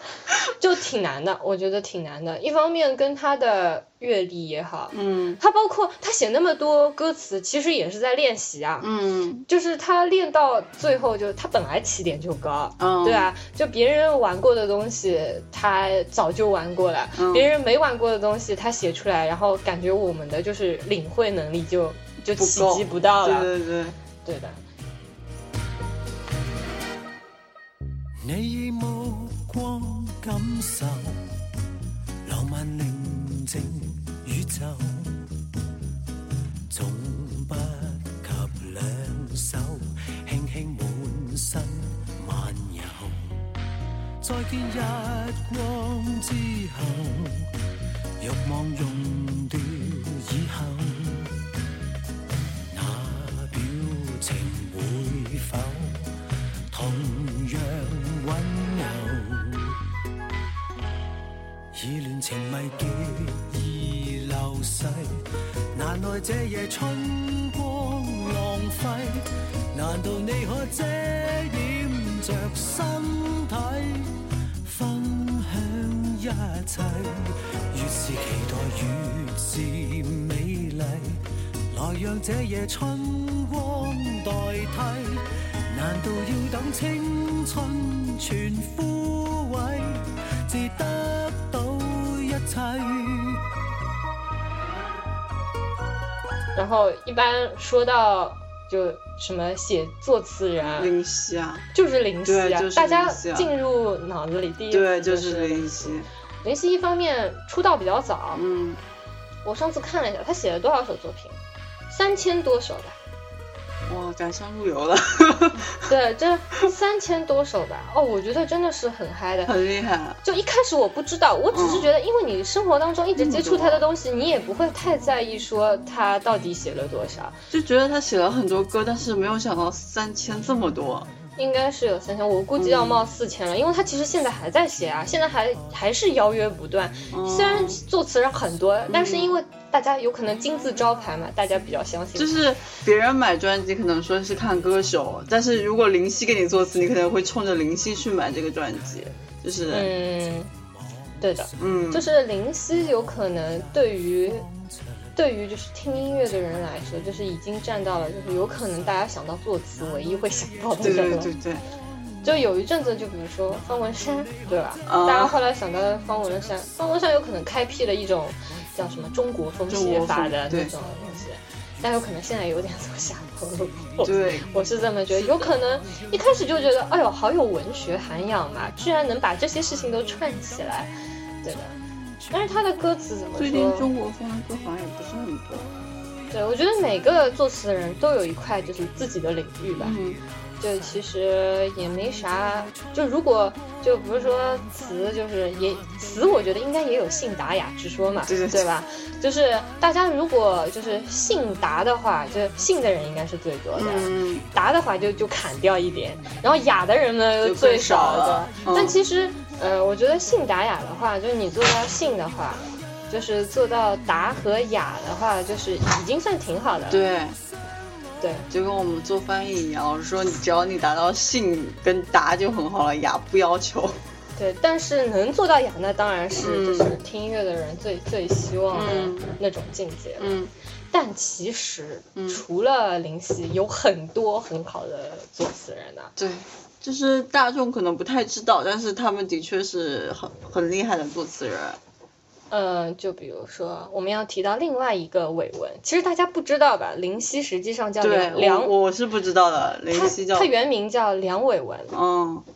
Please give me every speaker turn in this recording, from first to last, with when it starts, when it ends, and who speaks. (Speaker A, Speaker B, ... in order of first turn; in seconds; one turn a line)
Speaker A: 0.5-8.9
Speaker B: 4.9-5.4
Speaker B: 8.8-9.4
Speaker A: 9.5-23.5
Speaker B: 12.8-13.3
Speaker B: 17.2-17.5
Speaker B: 22.4-24.0
Speaker A: 24.2-24.6
Speaker C: 28.2-31.2
Speaker C: 32.2-35.2
Speaker C: 36.7-43.5
Speaker C: 44.2-47.5
Speaker C: 48.2-51.4
Speaker C: 52.7-56.1
Speaker C: 56.7-59.8
Speaker C: 61.7-65.2
Speaker C: 65.7-93.4
Speaker A: 96.5-100.9
Speaker B: 100.6-101.7
Speaker A: 101.7-108.4
Speaker B: 102.2-103.5
Speaker B: 104.7-106.1
Speaker B: 108.3-108.8
Speaker A: 109.5-111.3
Speaker A: 111.9-113.0
Speaker B: 113.9-115.7
Speaker A: 115.9-119.5
Speaker B: 119.5-120.2
Speaker A: 120.2-127.4
Speaker B: 121.5-121.9
Speaker B: 123.2-123.8
Speaker B: 127.5-131.1
Speaker A: 131.4-142.4
Speaker B: 132.6-133.1
Speaker B: 137.1-137.8
Speaker B: 138.9-139.4
Speaker B: 142.2-149.9
Speaker A: 149.7-150.5
Speaker C: 149.7-150.0
Speaker C: 150.5-151.2
Speaker A: 151.2-154.5
Speaker B: 151.6-152.1
Speaker A: 155.2-161.3
Speaker C: 160.1-161.5
Speaker B: 160.8-161.7
Speaker A: 162.2-180.9
Speaker C: 164.4-165.3
Speaker B: 164.9-165.4
Speaker B: 169.7-170.7
Speaker C: 174.0-174.7
Speaker B: 174.0-174.5
Speaker B: 175.2-175.5
Speaker A: 181.4-181.7
Speaker A: 182.3-183.9
Speaker B: 183.4-185.7
Speaker A: 186.3-190.0
Speaker B: 189.8-190.2
Speaker A: 190.6-217.0
Speaker B: 198.3-198.7
Speaker B: 203.8-204.4
Speaker B: 207.4-209.0
Speaker B: 216.9-217.4
Speaker A: 218.2-218.5
Speaker B: 218.5-224.0
Speaker A: 224.4-230.3
Speaker B: 226.4-226.9
Speaker B: 228.7-229.3
Speaker B: 230.2-230.5
Speaker A: 230.9-236.1
Speaker B: 232.2-232.4
Speaker B: 236.2-241.8
Speaker A: 242.5-248.7
Speaker B: 248.0-250.5
Speaker A: 249.9-251.9
Speaker B: 251.9-252.4